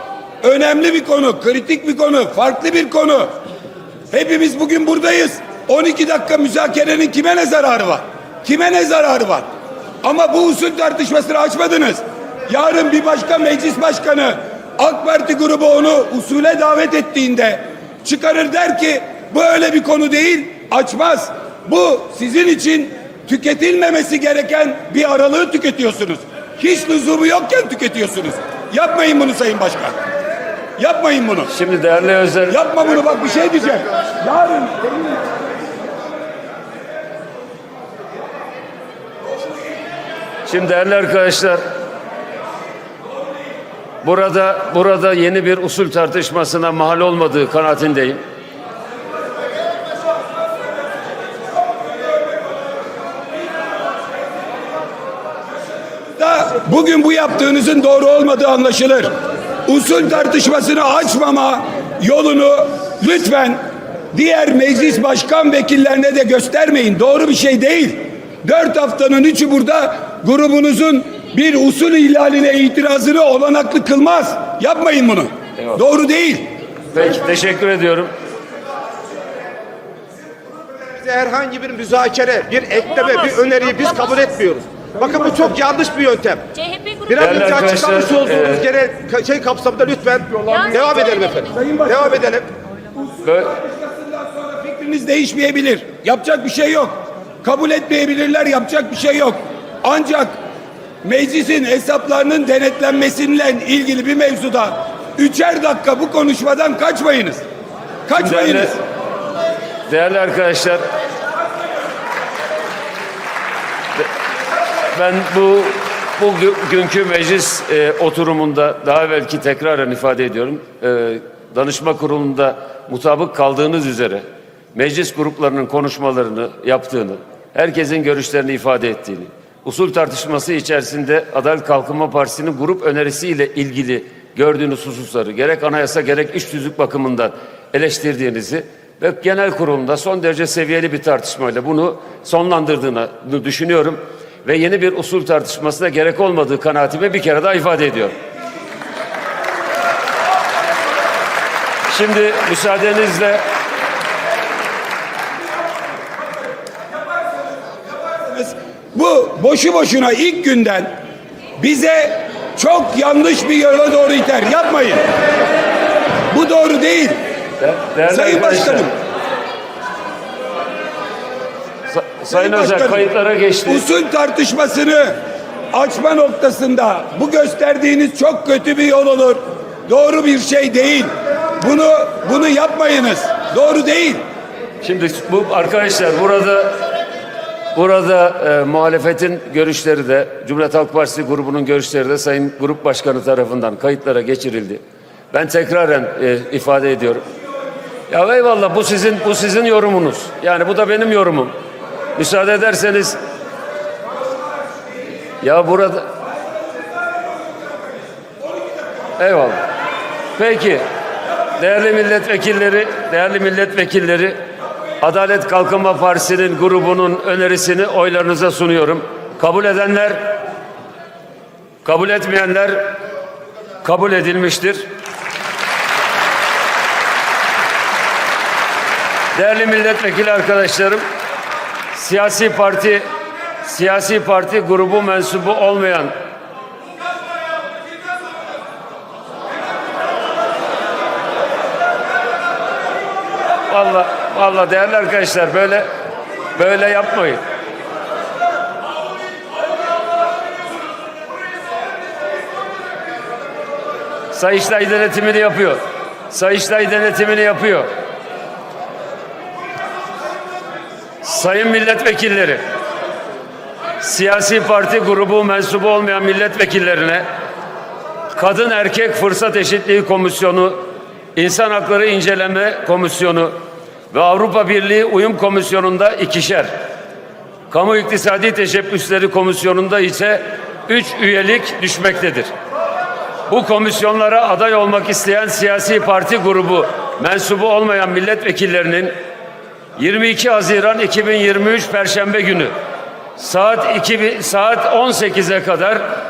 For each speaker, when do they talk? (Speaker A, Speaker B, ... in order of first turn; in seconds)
Speaker A: 0.4-3.3, 4.1-9.5, 10.0-29.9, 30.8-31.5, 32.5-35.1, 56.1-59.1, 59.6-63.6, 64.1-76.5, 93.7-100.3, 101.0-107.4, 108.1-108.8, 158.2-161.0, 161.6-165.0, 166.3-167.2, 168.1-168.9, 172.3-173.0, 173.7-175.2, 175.7-184.2
Speaker B: 31.5-32.6, 40.5-41.6, 44.0-48.2, 76.9-78.1, 87.2-88.7, 93.2-93.5, 108.2-108.7, 109.9-110.8, 114.9-148.1, 151.9-153.4, 167.6-168.9, 171.9-173.8, 184.8-186.8, 187.8-194.8, 195.3-197.2, 198.1-201.5, 202.2-203.2, 205.4-206.1, 209.2-209.6, 210.4-210.8, 211.6-214.4, 215.0-220.4, 221.8-222.9, 223.8-224.8, 229.3-231.0, 231.9-233.0, 233.6-236.1, 243.7-245.9, 246.6-247.4, 254.3-257.9, 261.2-262.6, 264.0-267.2, 268.4-270.8, 271.4-273.5, 274.1-276.7, 277.7-282.5, 283.5-289.1, 290.0-292.7, 293.4-296.0
Speaker C: 80.9-86.5, 87.0-92.5